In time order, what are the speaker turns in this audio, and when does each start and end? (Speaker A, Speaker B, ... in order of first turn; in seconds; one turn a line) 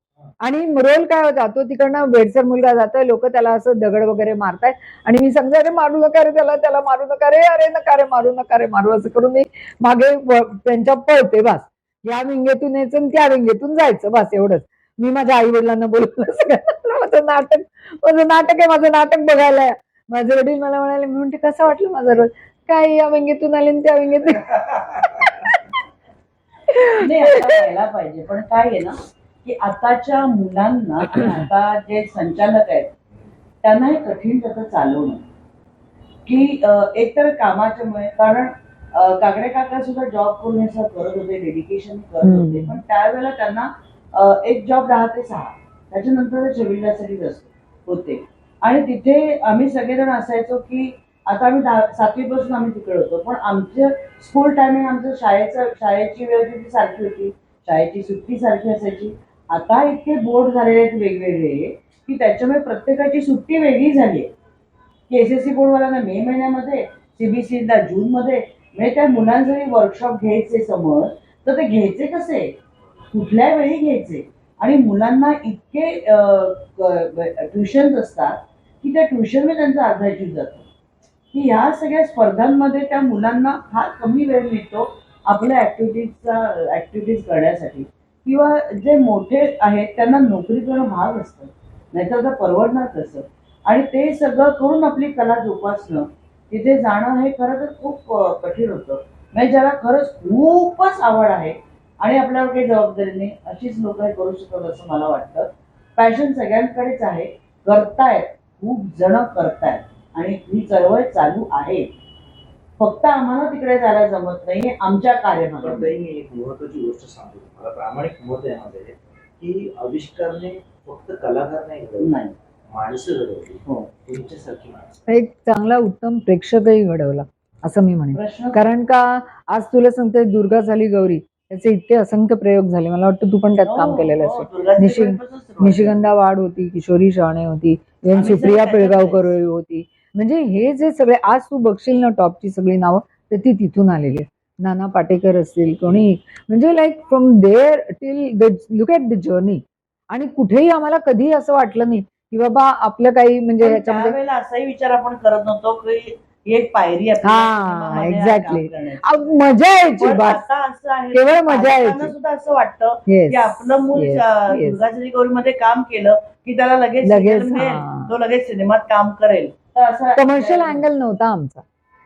Speaker A: 0.4-25.6
Speaker A: 26.7-27.4
Speaker B: 26.9-32.9
Speaker B: 33.6-35.2
Speaker B: 36.2-64.3
Speaker A: 42.2-42.8
Speaker B: 65.1-72.5
Speaker B: 73.1-80.7
Speaker B: 81.3-111.9
Speaker B: 112.8-115.9
Speaker C: 115.6-122.1
Speaker B: 122.0-122.3
Speaker C: 122.7-125.0
Speaker A: 125.1-154.1
Speaker B: 128.1-128.6
Speaker B: 133.6-136.0
Speaker B: 138.1-139.3
Speaker B: 153.6-159.3
Speaker A: 157.2-160.4
Speaker B: 159.8-170.8
Speaker A: 161.1-162.1
Speaker A: 163.1-164.8
Speaker A: 167.0-168.1
Speaker A: 170.2-171.6